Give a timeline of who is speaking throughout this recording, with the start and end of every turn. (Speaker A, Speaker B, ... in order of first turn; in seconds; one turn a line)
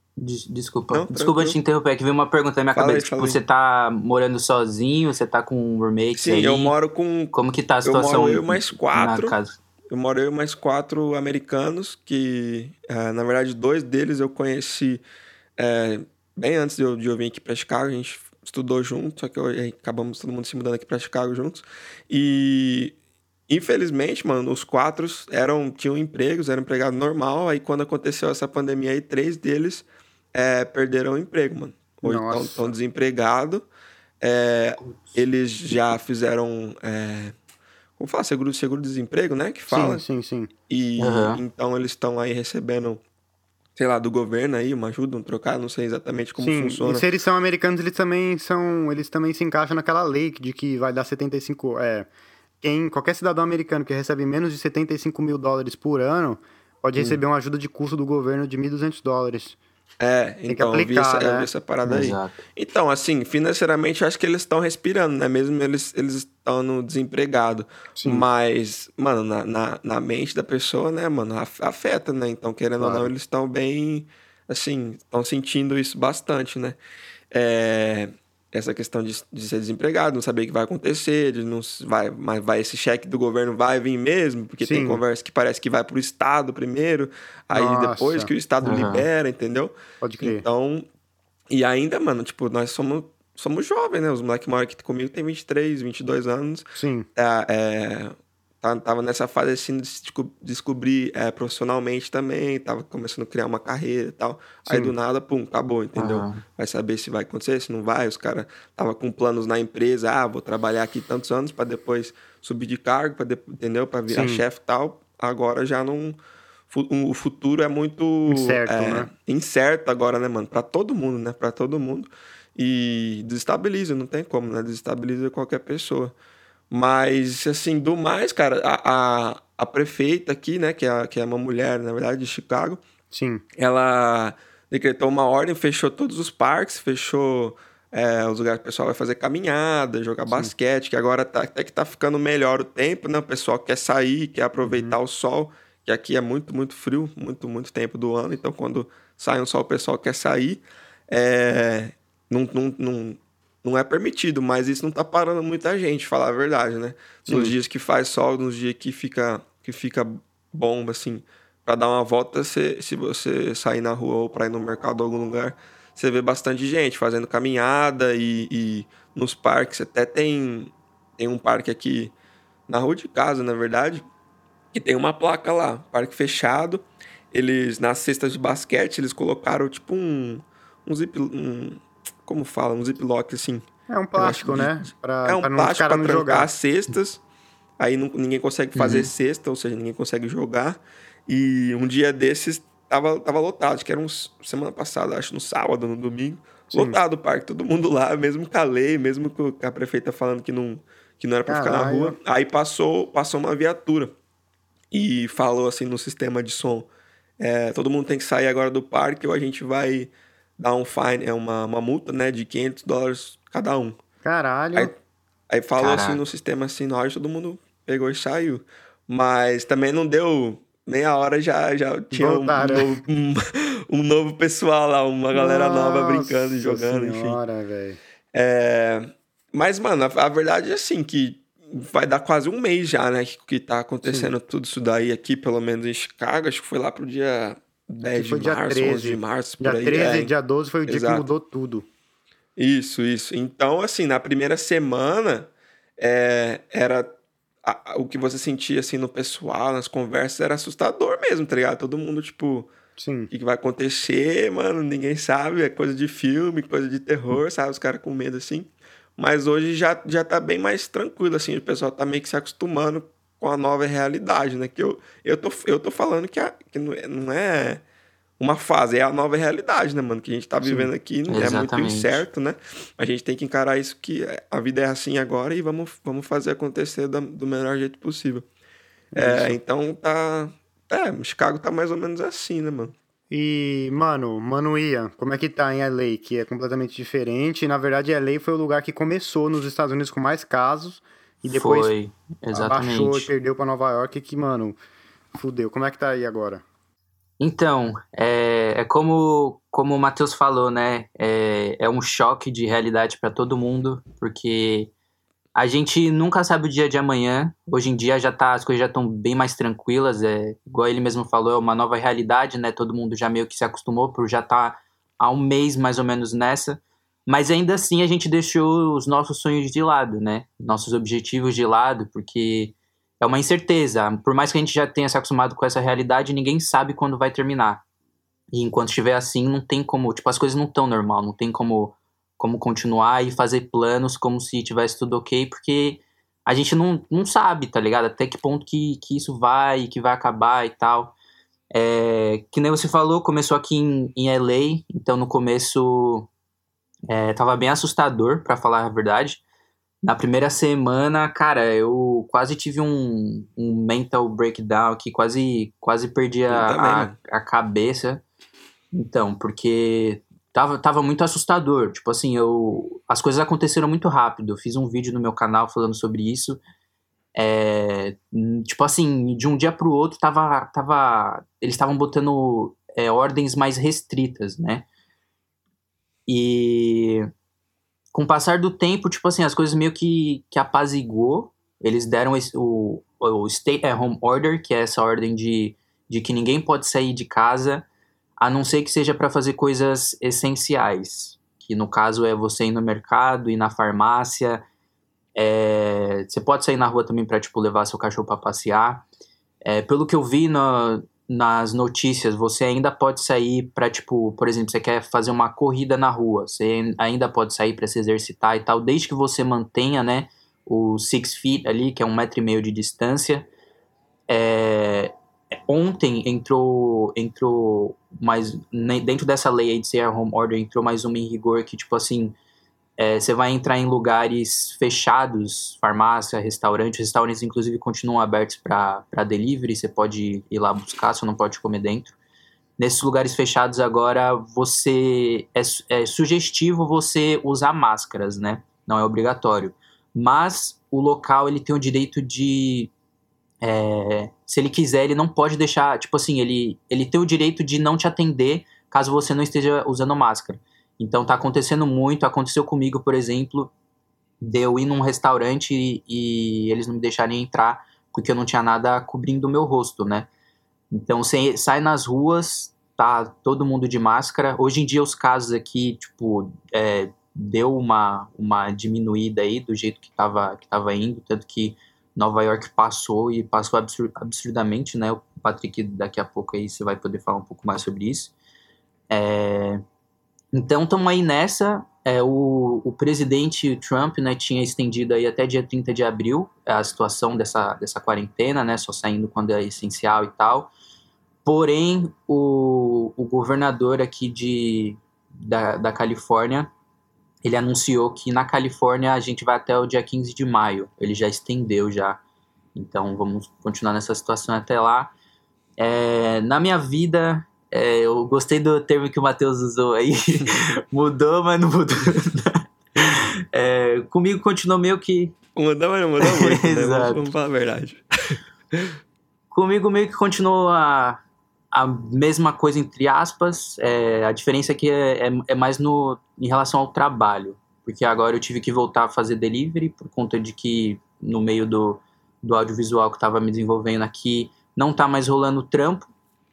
Speaker A: 0.2-6.7
Speaker B: 0.9-1.6
Speaker B: 2.8-3.4
Speaker B: 6.2-9.3
Speaker A: 7.3-9.6
Speaker B: 9.9-15.0
Speaker B: 15.6-22.9
Speaker B: 23.5-33.7
Speaker C: 32.0-32.7
Speaker B: 34.2-37.4
Speaker B: 38.0-40.0
Speaker C: 39.7-40.5
Speaker B: 40.7-43.0
Speaker A: 41.0-41.4
Speaker B: 43.8-47.1
Speaker C: 46.4-52.1
Speaker C: 52.6-59.6
Speaker B: 60.0-76.8
Speaker C: 60.5-61.5
Speaker A: 61.8-62.4
Speaker C: 68.0-68.2
Speaker C: 72.8-73.1
Speaker B: 77.3-90.9
Speaker C: 84.6-85.0
Speaker C: 87.5-88.3
Speaker A: 88.6-89.1
Speaker C: 90.0-90.4
Speaker B: 91.5-116.2
Speaker C: 96.8-97.1
Speaker C: 104.7-104.9
Speaker A: 106.0-106.4
Speaker C: 114.1-114.4
Speaker B: 116.7-126.2
Speaker C: 118.3-119.1
Speaker B: 126.7-132.8
Speaker C: 133.1-133.4
Speaker B: 133.6-172.1
Speaker C: 140.3-140.5
Speaker C: 144.6-145.0
Speaker C: 157.2-157.5
Speaker B: 172.7-174.1
Speaker B: 174.7-187.2
Speaker C: 183.9-186.5
Speaker B: 187.8-204.1
Speaker A: 188.8-189.1
Speaker C: 201.5-202.2
Speaker B: 204.9-206.9
Speaker B: 207.4-214.0
Speaker C: 214.2-214.9
Speaker B: 215.5-227.4
Speaker A: 215.8-216.2
Speaker C: 222.1-222.9
Speaker C: 225.3-228.0
Speaker B: 228.3-240.3
Speaker C: 234.0-234.3
Speaker C: 238.1-241.9
Speaker B: 240.9-241.2
Speaker B: 242.6-247.1
Speaker B: 247.6-252.7
Speaker C: 253.0-253.3
Speaker B: 253.3-267.8
Speaker B: 268.4-278.5
Speaker A: 270.6-272.2
Speaker C: 279.1-279.6
Speaker B: 279.1-282.9
Speaker C: 283.3-291.9
Speaker A: 291.5-293.3
Speaker C: 292.5-294.8
Speaker C: 295.3-296.6
Speaker A: 297.4-304.9
Speaker A: 305.5-327.8
Speaker A: 328.5-341.1
Speaker A: 341.7-346.3
Speaker A: 347.1-349.4
Speaker A: 350.0-358.2
Speaker B: 356.5-357.1
Speaker A: 358.9-366.6
Speaker A: 367.4-374.9
Speaker A: 376.3-377.3
Speaker A: 378.1-387.9
Speaker A: 388.4-394.6
Speaker A: 395.4-399.0
Speaker A: 399.6-413.5
Speaker A: 414.3-422.4
Speaker A: 423.0-432.1
Speaker A: 432.8-442.9
Speaker A: 443.6-453.7
Speaker A: 454.4-460.3
Speaker A: 460.9-478.3
Speaker A: 479.1-479.8
Speaker A: 480.5-490.7
Speaker A: 491.4-496.7
Speaker A: 497.4-502.2
Speaker A: 502.8-505.1
Speaker A: 505.8-515.4
Speaker B: 515.6-519.0
Speaker A: 516.2-517.3
Speaker A: 519.5-521.2
Speaker A: 521.7-536.1